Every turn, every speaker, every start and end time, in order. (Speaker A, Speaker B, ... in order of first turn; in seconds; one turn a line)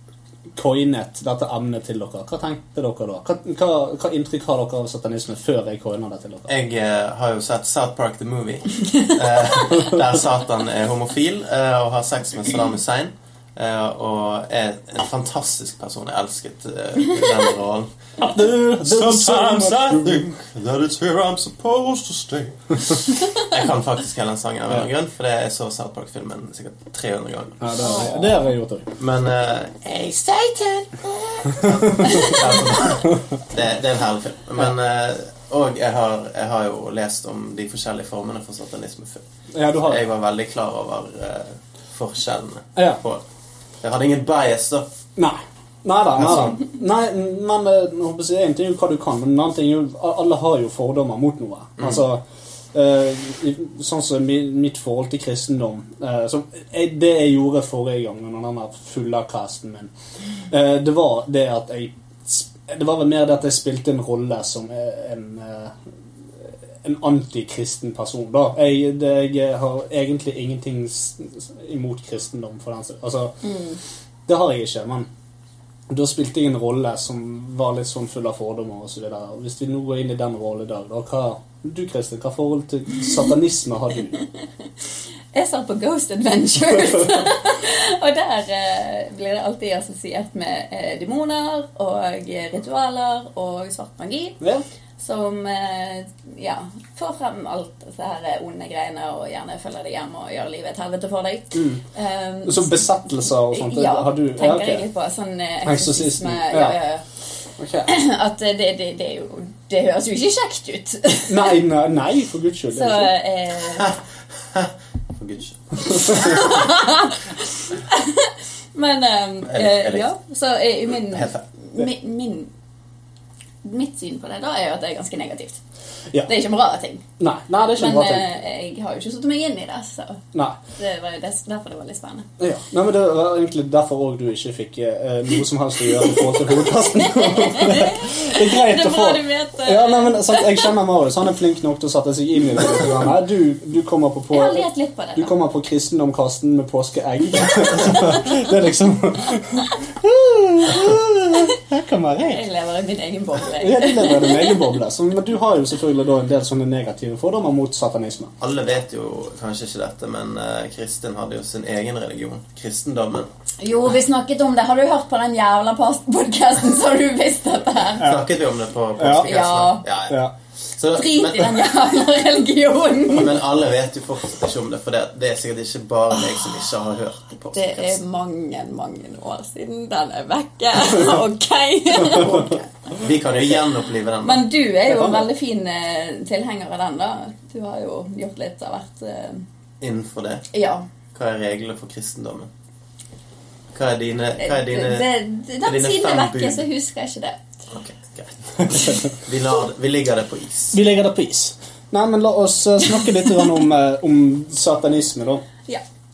Speaker A: 0.6-6.5
Speaker B: 6.5-17.9
Speaker A: 18.2-20.2
Speaker B: 18.8-28.1
Speaker A: 27.6-28.9
Speaker C: 27.8-28.3
Speaker B: 29.0-39.2
Speaker A: 31.6-32.3
Speaker A: 39.5-40.0
Speaker B: 39.8-43.2
Speaker A: 42.8-43.0
Speaker B: 43.8-44.9
Speaker A: 45.1-52.2
Speaker B: 46.2-46.6
Speaker A: 52.7-59.9
Speaker A: 60.5-65.7
Speaker A: 66.8-73.5
Speaker C: 73.4-73.8
Speaker A: 74.3-75.1
Speaker A: 75.9-84.2
Speaker C: 85.3-94.4
Speaker C: 95.0-107.0
Speaker A: 101.5-101.8
Speaker A: 102.4-104.8
Speaker A: 105.6-106.8
Speaker A: 107.6-107.9
Speaker C: 107.8-111.5
Speaker A: 111.3-113.1
Speaker C: 112.7-113.9
Speaker B: 114.5-116.2
Speaker C: 116.0-122.5
Speaker B: 119.5-120.0
Speaker B: 121.1-121.4
Speaker C: 123.6-125.6
Speaker C: 126.2-127.0
Speaker A: 127.2-128.2
Speaker C: 127.8-130.2
Speaker C: 130.8-132.3
Speaker A: 132.4-152.4
Speaker C: 136.7-140.7
Speaker C: 144.3-145.3
Speaker C: 152.3-154.7
Speaker A: 153.5-158.3
Speaker B: 158.4-163.3
Speaker C: 163.6-168.2
Speaker B: 168.0-170.2
Speaker A: 169.0-169.3
Speaker C: 169.2-169.8
Speaker A: 170.1-170.3
Speaker B: 170.8-171.7
Speaker C: 170.9-173.3
Speaker B: 173.1-178.0
Speaker C: 177.5-182.7
Speaker B: 182.9-184.4
Speaker C: 184.2-189.4
Speaker A: 184.9-185.3
Speaker B: 189.8-190.5
Speaker C: 190.5-190.8
Speaker B: 191.1-192.5
Speaker B: 193.7-195.1
Speaker C: 194.4-197.4
Speaker B: 195.6-196.6
Speaker B: 197.7-200.8
Speaker A: 200.7-205.4